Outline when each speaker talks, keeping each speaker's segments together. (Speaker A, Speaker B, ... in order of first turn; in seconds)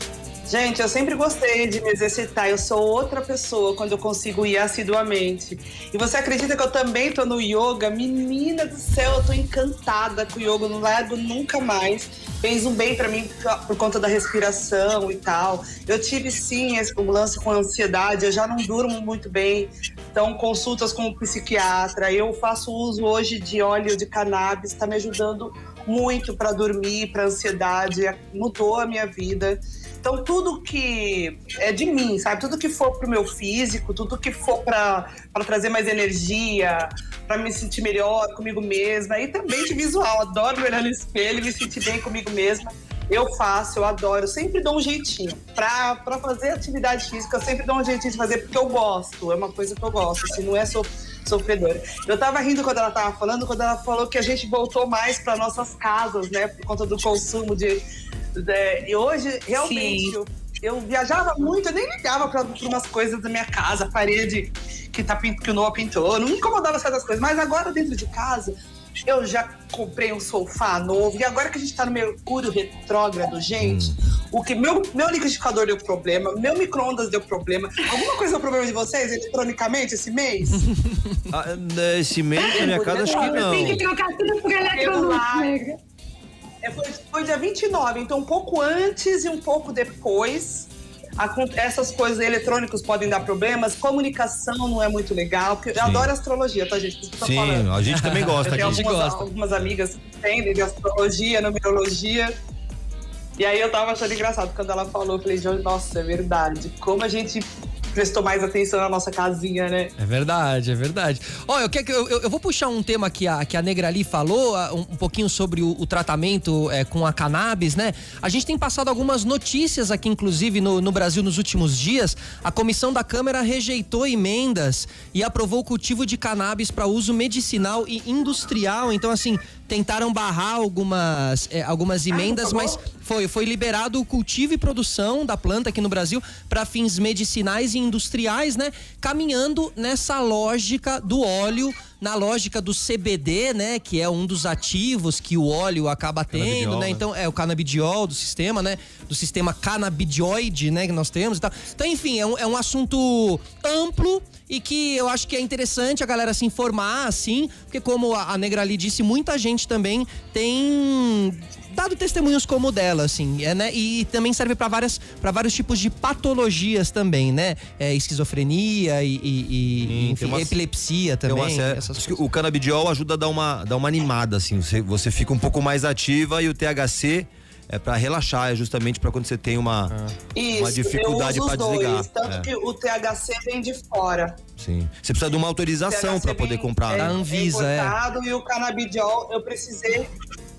Speaker A: 0.5-57.8, 58.3-80.6, 82.5-83.9, 84.7-85.5, 86.6-97.7, 98.4-102.3, 103.4-109.9, 132.1-132.8, 180.3-184.4, 185.9-190.1
Speaker B: 59.5-60.2, 82.4-85.8
Speaker C: 73.6-73.9, 81.3-83.8, 95.8-96.1, 97.2-98.8, 146.3-147.0, 169.8-170.6, 171.2-179.9, 180.5-182.5, 184.6-187.2
Speaker D: 80.6-81.2, 97.9-99.3, 110.0-172.2, 179.9-180.1, 186.9-187.9